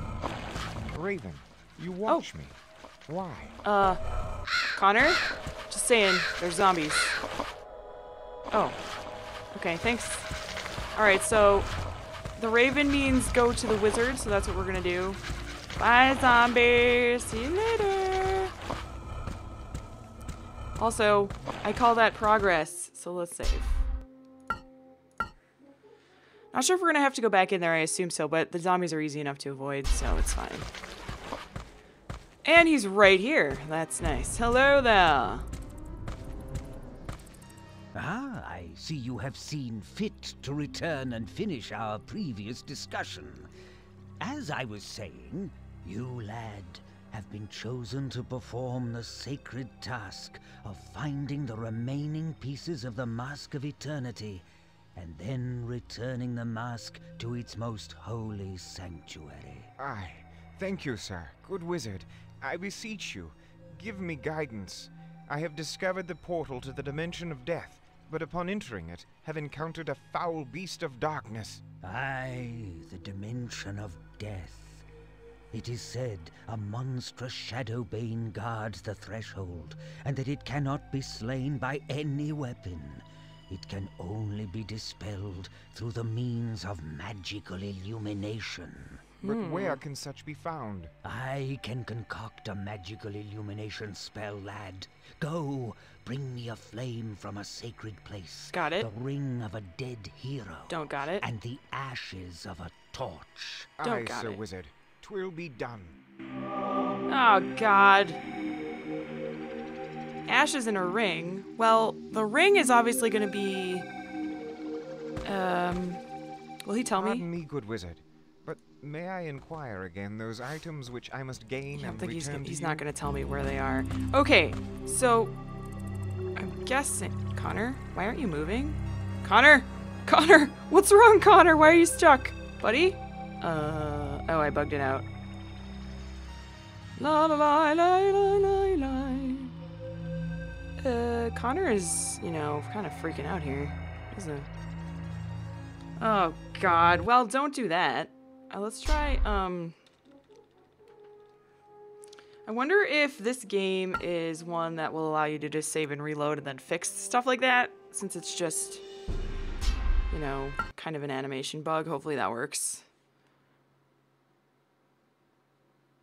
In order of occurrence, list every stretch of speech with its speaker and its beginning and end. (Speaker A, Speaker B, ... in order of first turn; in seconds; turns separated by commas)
Speaker A: 0.9-3.6, Speaker B: 3.6-4.0, Speaker B: 4.7-7.2, Speaker B: 8.5-8.8, Speaker B: 9.5-10.3, Speaker B: 10.9-11.7, Speaker B: 12.4-15.2, Speaker B: 15.8-18.5, Speaker B: 20.8-23.9, Speaker B: 26.5-30.7, Speaker B: 32.4-35.5, Speaker C: 38.0-43.5, Speaker C: 44.2-54.4, Speaker C: 55.0-59.7, Speaker A: 59.8-71.6, Speaker C: 71.8-74.8, Speaker C: 75.5-89.0, Speaker B: 89.2-89.8, Speaker A: 89.2-90.9, Speaker C: 91.0-103.7, Speaker B: 98.5-98.9, Speaker B: 100.7-101.2, Speaker A: 103.8-106.0, Speaker B: 103.8-104.4, Speaker B: 107.1-108.2, Speaker B: 110.3-113.9, Speaker B: 115.2-116.0, Speaker B: 116.7-117.3, Speaker A: 117.0-122.8, Speaker B: 121.7-125.3, Speaker B: 126.4-135.1, Speaker B: 137.0-139.5, Speaker B: 140.8-144.5, Speaker B: 146.0-149.8, Speaker B: 152.5-158.8, Speaker B: 160.1-162.8